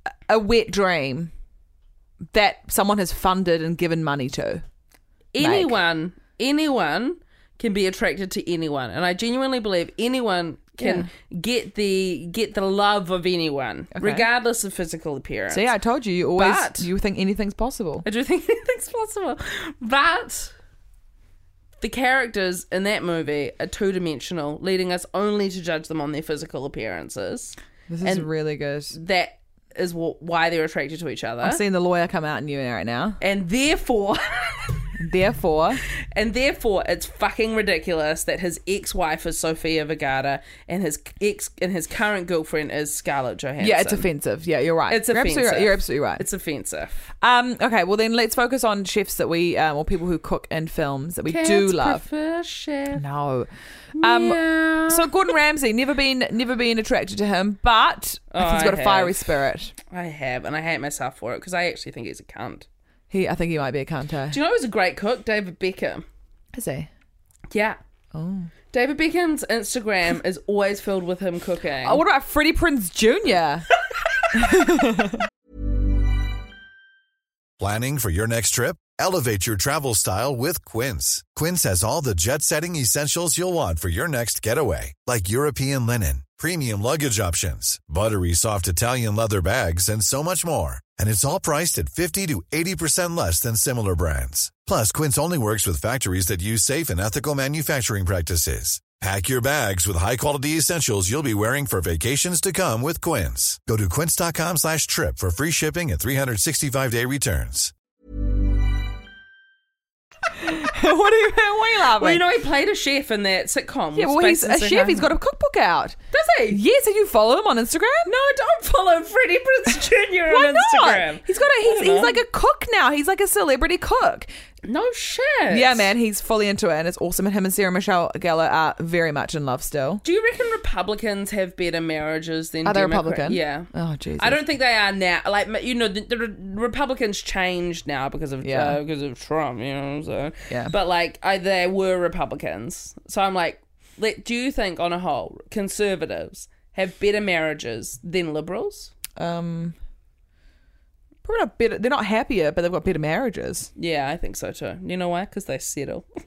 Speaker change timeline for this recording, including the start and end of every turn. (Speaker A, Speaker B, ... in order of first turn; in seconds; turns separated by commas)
Speaker A: 0.3-1.3, Speaker A: 2.3-4.6, Speaker B: 5.3-15.7, Speaker A: 5.4-5.8, Speaker A: 10.8-11.1, Speaker A: 13.9-14.3, Speaker A: 15.5-18.1, Speaker B: 16.4-16.9, Speaker B: 18.0-20.5, Speaker B: 21.8-28.3, Speaker A: 27.9-28.9, Speaker B: 28.9-31.6, Speaker A: 31.4-33.2, Speaker B: 33.2-34.9, Speaker A: 35.0-35.8, Speaker B: 36.1-44.1, Speaker A: 43.6-46.2, Speaker B: 44.9-47.0, Speaker A: 47.2-52.0, Speaker B: 51.3-53.0, Speaker A: 52.9-59.7, Speaker B: 53.9-55.3, Speaker B: 58.3-59.2, Speaker B: 59.9-62.6, Speaker A: 63.1-64.4, Speaker B: 64.3-66.0, Speaker A: 66.5-66.9, Speaker B: 67.5-67.8, Speaker A: 68.1-68.5, Speaker B: 68.7-72.0, Speaker A: 71.8-73.6, Speaker A: 74.3-75.3, Speaker C: 77.6-107.7, Speaker A: 110.4-112.2, Speaker B: 112.0-115.1, Speaker A: 113.9-116.0, Speaker B: 116.1-116.6, Speaker A: 116.5-118.1, Speaker B: 118.0-122.2, Speaker A: 120.3-124.3, Speaker B: 124.6-125.9, Speaker A: 125.5-130.0, Speaker B: 130.0-148.9, Speaker A: 132.6-134.4, Speaker A: 138.4-138.8, Speaker A: 149.2-149.8, Speaker A: 151.2-153.7, Speaker B: 153.8-156.0